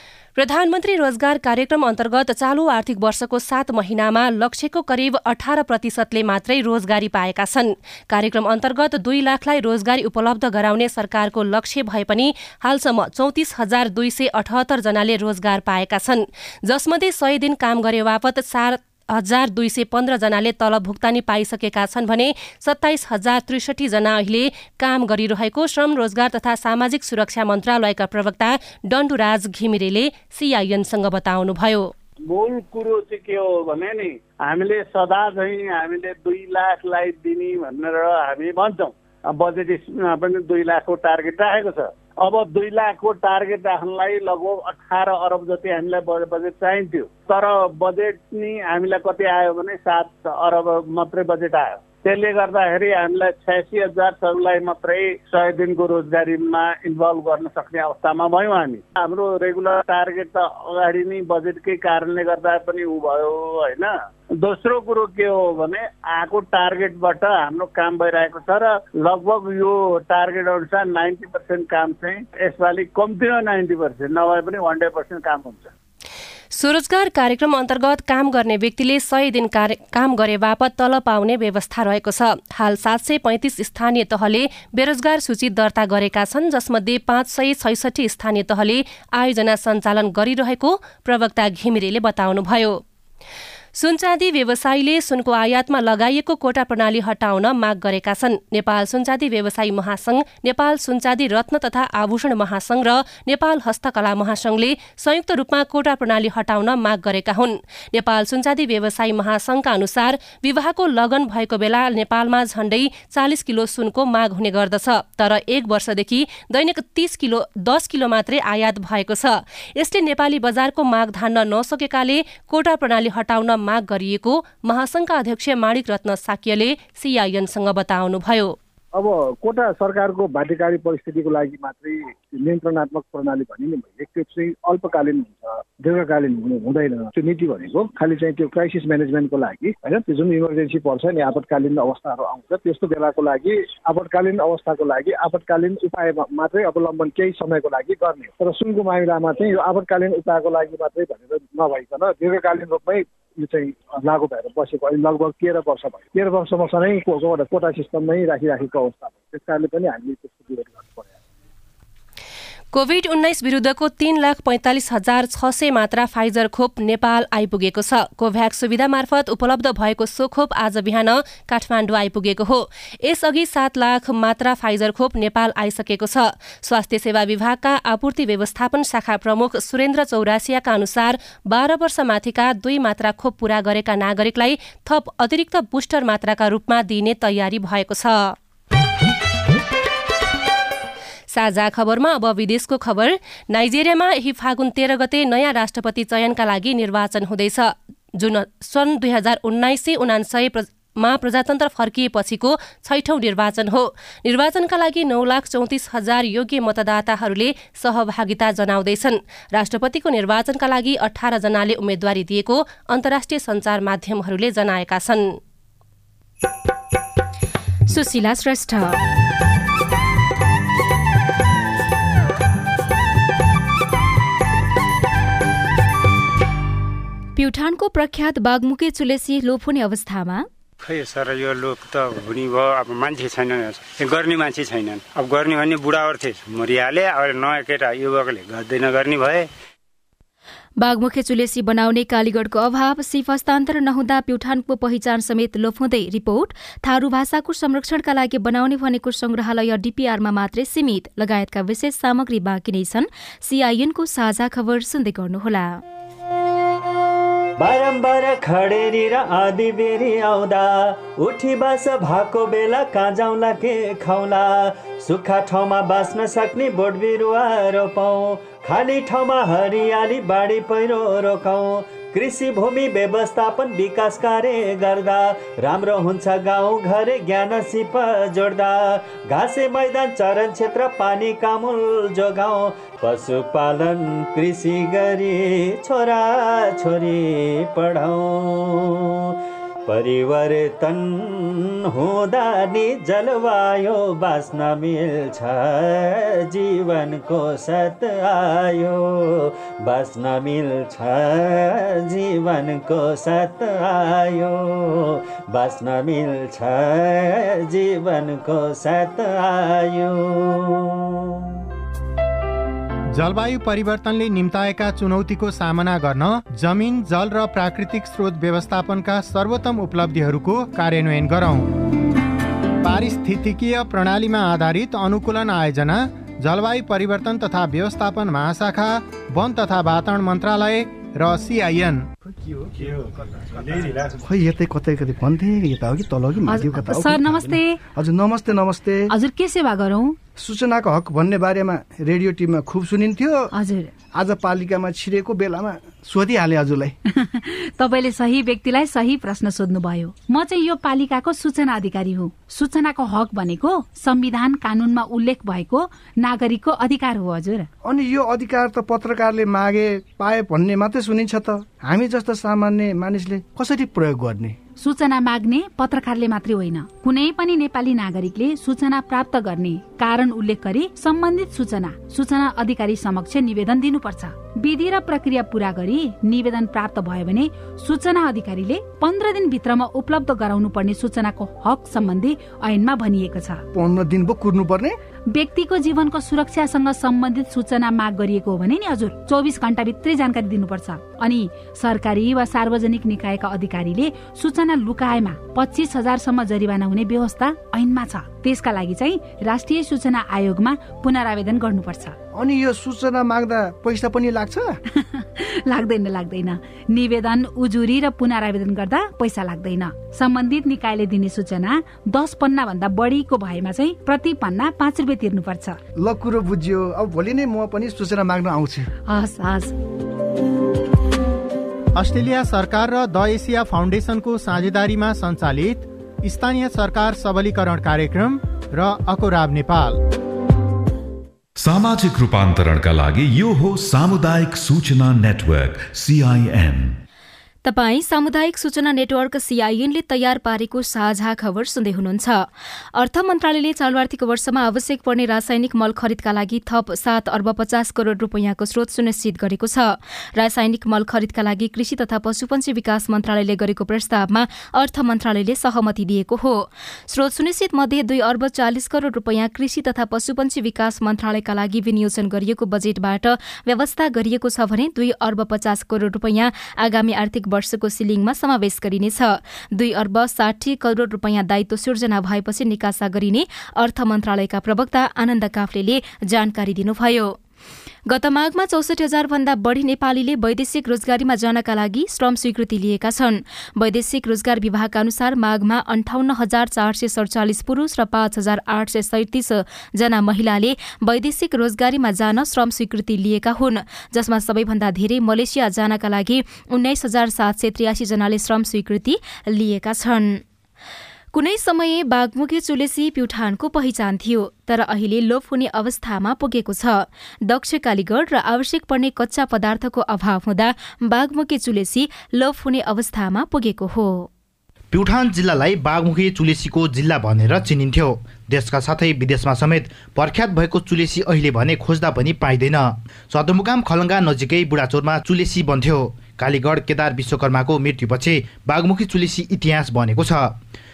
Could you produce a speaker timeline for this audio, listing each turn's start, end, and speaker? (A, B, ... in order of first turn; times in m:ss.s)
0:00.4-0:31.9 A
0:32.3-1:15.7 B
1:16.5-1:32.8 A
1:33.7-2:08.6 A
2:08.9-2:41.1 C
2:42.7-3:08.3 A
3:11.3-3:35.4 A
3:37.9-3:39.0 D
3:47.4-3:50.4 D
3:50.8-3:59.5 E
4:00.8-4:15.8 D
4:17.6-4:49.3 F
4:49.9-5:11.1 F
5:13.1-5:21.8 G
5:22.8-5:32.1 G
5:33.6-5:39.1 H
5:36.5-5:37.8 I
5:39.1-5:40.2 I
5:40.4-5:43.5 H
5:43.5-5:43.9 I
5:44.1-5:46.9 H
5:47.1-5:57.7 I
5:57.8-6:04.6 H
6:04.8-6:23.6 I
6:23.7-6:25.0 H
6:25.3-6:42.2 I
6:42.3-6:44.8 H
6:44.9-6:55.8 I
6:56.0-6:58.9 H
6:59.0-6:59.7 I
7:02.0-7:10.0 G
7:11.6-7:17.0 J
7:17.6-7:57.4 D
7:58.1-8:20.4 D
8:21.3-8:34.3 D
8:34.9-8:50.6 K